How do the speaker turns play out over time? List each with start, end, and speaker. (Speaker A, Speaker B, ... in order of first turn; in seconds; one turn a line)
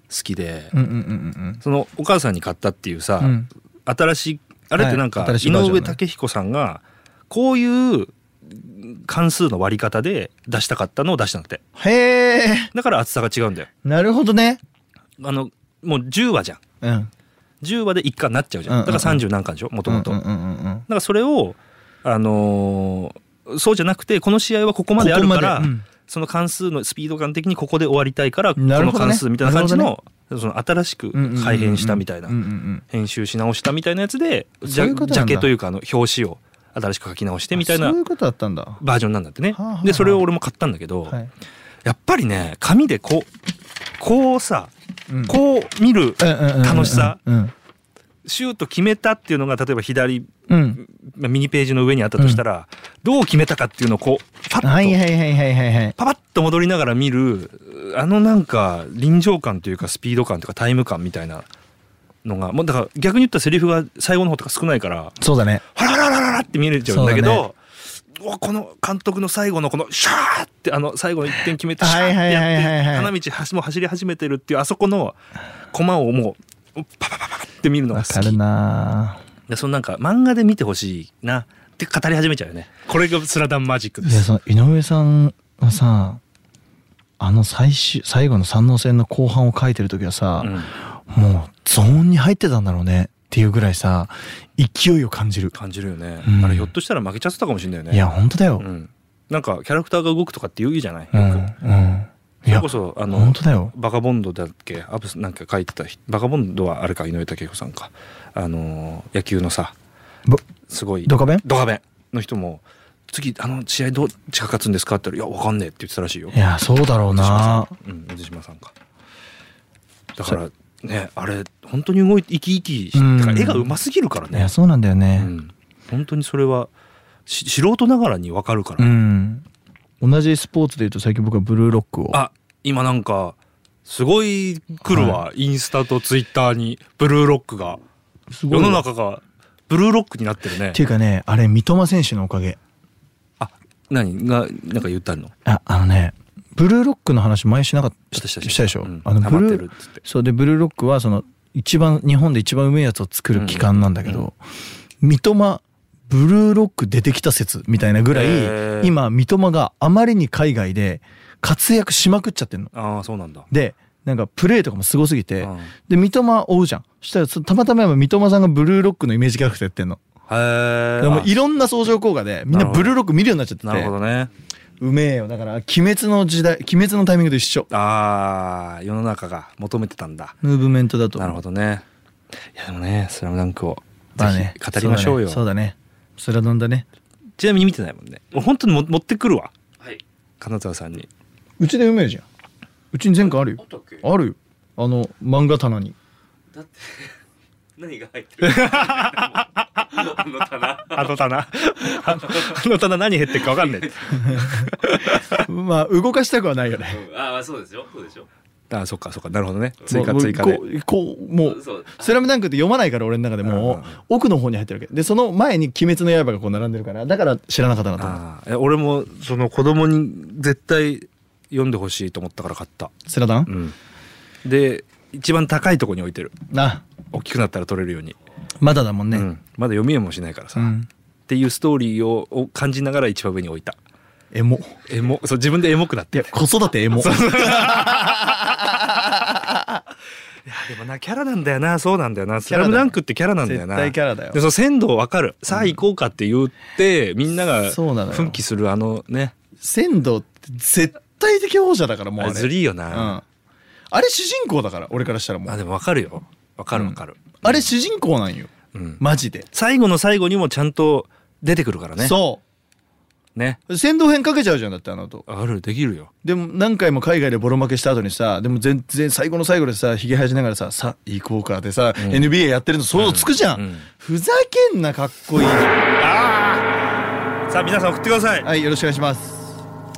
Speaker A: 0.1-0.7
Speaker B: 0.7-1.6
Speaker A: 1.6-11.6
Speaker B: 3.2-3.5
Speaker B: 4.8-6.0
Speaker B: 11.8-12.7
Speaker A: 12.7-13.7
Speaker B: 13.8-14.6
Speaker A: 15.2-16.6
Speaker B: 16.8-17.1
Speaker A: 17.6-20.2
Speaker B: 18.7-19.2
Speaker B: 19.9-20.9
Speaker A: 20.9-32.4
Speaker B: 25.0-25.8
Speaker B: 28.6-29.9
Speaker B: 31.1-32.8
Speaker A: 32.9-38.0
Speaker B: 34.6-35.5
Speaker B: 37.5-38.8
Speaker A: 38.8-41.2
Speaker B: 39.5-40.2
Speaker A: 41.8-43.3
Speaker A: 44.0-44.7
Speaker B: 45.1-45.4
Speaker A: 45.2-47.2
Speaker B: 46.2-47.5
Speaker A: 48.2-55.0
Speaker B: 50.5-50.8
Speaker B: 54.6-56.0
Speaker A: 56.0-61.5
Speaker A: 62.2-65.2
Speaker B: 65.2-65.6
Speaker A: 65.7-67.6
Speaker B: 66.8-67.5
Speaker A: 68.2-75.2
Speaker B: 71.8-73.1
Speaker A: 75.7-78.4
Speaker B: 77.9-79.2
Speaker A: 79.5-84.3
Speaker B: 84.0-86.2
Speaker B: 87.2-95.5
Speaker A: 90.4-90.7
Speaker A: 95.5-98.0
Speaker B: 96.2-96.7
Speaker B: 97.9-98.7
Speaker A: 98.6-101.5
Speaker B: 101.1-103.7
Speaker A: 102.5-109.7
Speaker A: 110.7-116.4
Speaker B: 111.0-111.4
Speaker B: 116.3-117.7
Speaker A: 117.1-118.7
Speaker A: 120.2-124.5
Speaker B: 122.9-123.8
Speaker B: 124.3-125.3
Speaker A: 125.2-126.7
Speaker A: 127.2-129.0
Speaker B: 128.8-129.4
Speaker B: 130.0-132.2
Speaker A: 132.1-137.8
Speaker B: 134.8-135.2
Speaker B: 138.3-138.8
Speaker A: 138.5-140.8
Speaker B: 140.7-142.6
Speaker A: 143.4-145.3
Speaker B: 145.4-154.4
Speaker A: 148.1-150.0
Speaker A: 153.3-154.3
Speaker B: 155.0-162.7
Speaker A: 158.1-159.0
Speaker A: 162.7-163.5
Speaker B: 163.5-170.0
Speaker A: 165.4-165.7
Speaker A: 170.3-171.3
Speaker B: 171.0-173.9
Speaker A: 172.5-172.9
Speaker A: 173.6-174.3
Speaker B: 174.8-177.7
Speaker A: 177.7-180.3
Speaker B: 180.4-181.4
Speaker A: 181.2-181.8
Speaker A: 182.5-185.4
Speaker B: 184.2-186.8
Speaker A: 187.4-189.5
Speaker A: 190.4-191.1
Speaker B: 191.6-192.2
Speaker B: 192.9-195.9
Speaker C: 196.5-197.1
Speaker C: 197.8-199.4
Speaker A: 198.4-205.4
Speaker C: 199.9-200.9
Speaker B: 204.1-207.0
Speaker C: 206.9-208.2
Speaker A: 208.7-210.6
Speaker B: 209.9-218.2
Speaker C: 211.6-212.1
Speaker A: 213.4-214.0
Speaker A: 218.0-222.9
Speaker B: 223.1-223.5
Speaker A: 223.5-223.8
Speaker A: 224.4-226.3
Speaker B: 226.5-226.8
Speaker A: 227.1-228.2
Speaker B: 228.6-229.3
Speaker A: 229.1-230.7
Speaker B: 230.5-230.9
Speaker A: 231.3-233.8
Speaker B: 234.3-234.8
Speaker A: 234.9-236.3
Speaker B: 236.1-239.8
Speaker A: 236.9-238.7
Speaker A: 240.4-249.3
Speaker B: 242.4-244.4
Speaker B: 247.7-248.4
Speaker B: 249.6-253.2
Speaker A: 252.2-253.2
Speaker B: 253.9-255.6
Speaker A: 255.5-257.7
Speaker B: 256.7-259.5
Speaker A: 258.7-259.0
Speaker A: 259.5-262.2
Speaker B: 262.0-262.4
Speaker A: 263.3-263.6
Speaker B: 263.7-265.2
Speaker A: 265.3-266.1
Speaker B: 266.2-275.8
Speaker A: 272.0-272.3
Speaker A: 272.9-273.8
Speaker A: 276.0-276.7
Speaker A: 277.5-278.5
Speaker B: 278.4-279.6